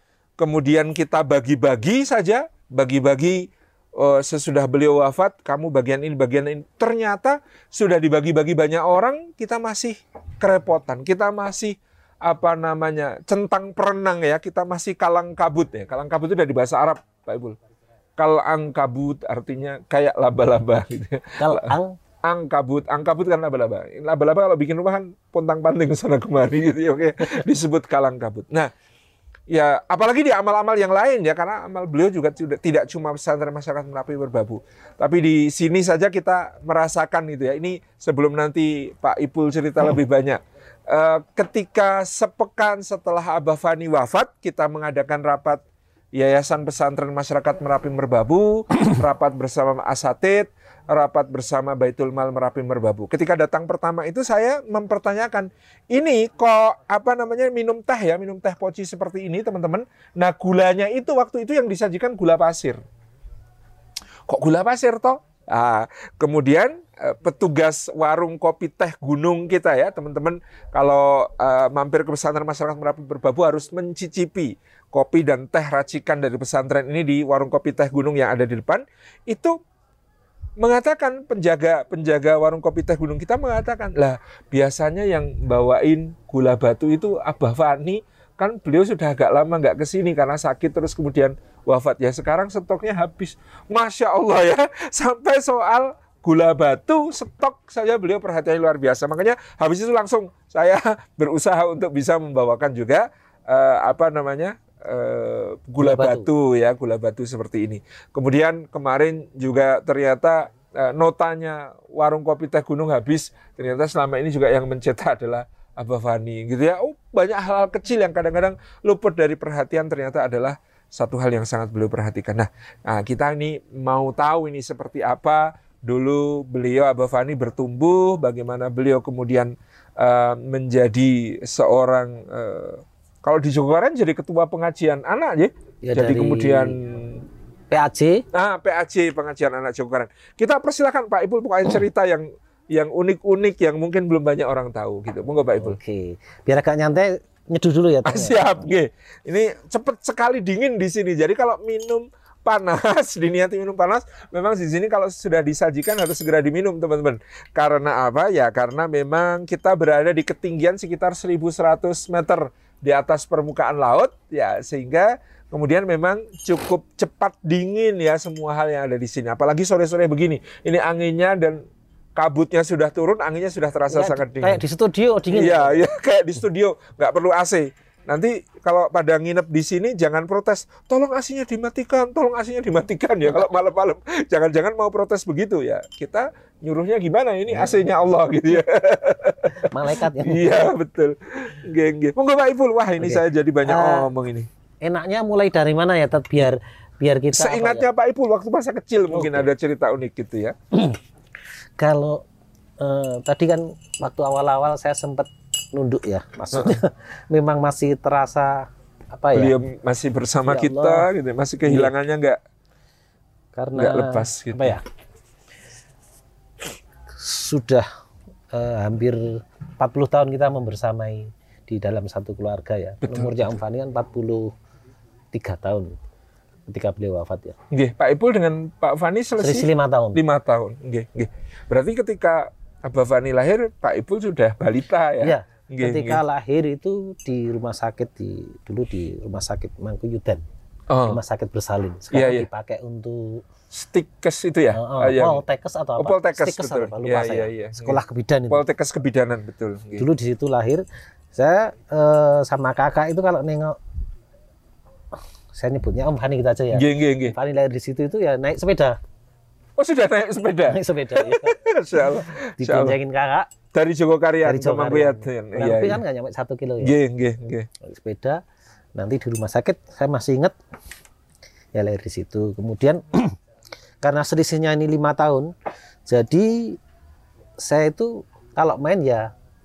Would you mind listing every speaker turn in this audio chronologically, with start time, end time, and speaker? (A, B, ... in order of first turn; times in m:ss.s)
0:00.4-0:03.5 A
0:04.0-0:17.6 A
0:18.2-0:28.7 A
0:21.4-0:22.0 B
0:29.5-0:45.6 A
0:46.2-1:02.8 A
1:04.3-1:19.6 A
1:20.6-2:17.2 A
1:45.8-1:46.3 B
2:15.8-2:16.8 B
2:17.7-2:18.2 B
2:18.3-2:25.8 A
2:25.6-2:28.7 B
2:28.0-2:51.6 A
2:52.2-2:54.6 A
2:53.9-2:55.9 B
2:55.3-3:14.5 A
3:07.5-3:07.8 B
3:09.6-3:10.7 B
3:13.0-3:14.1 B
3:14.8-3:17.9 B
3:17.3-3:20.6 A
3:19.1-3:19.5 B
3:21.8-3:22.2 B
3:22.8-3:29.6 B
3:29.3-3:32.4 A
3:30.5-3:31.1 B
3:31.7-3:31.9 B
3:33.6-3:34.8 B
3:33.8-3:34.8 A
3:37.1-3:37.9 B
3:38.5-3:44.5 B
3:43.0-3:43.6 A
3:45.3-3:46.0 B
3:46.7-3:47.6 B
3:47.7-3:56.2 A
3:49.4-3:50.2 B
3:55.2-4:00.4 B
4:00.9-4:01.2 A
4:01.0-4:03.4 B
4:02.1-4:02.5 A
4:03.7-4:05.4 A
4:04.7-4:08.6 B
4:06.0-4:10.1 A
4:10.0-4:10.8 B
4:11.3-4:13.8 B
4:15.5-4:19.0 B
4:16.7-4:17.4 A
4:19.8-4:23.0 A
4:20.7-4:23.5 B
4:23.7-4:26.0 A
4:24.4-4:27.0 B
4:26.8-4:27.7 A
4:27.8-4:28.4 B
4:29.0-4:30.6 B
4:31.8-4:33.4 B
4:34.0-4:35.5 B
4:36.1-4:36.8 B
4:37.6-4:39.3 B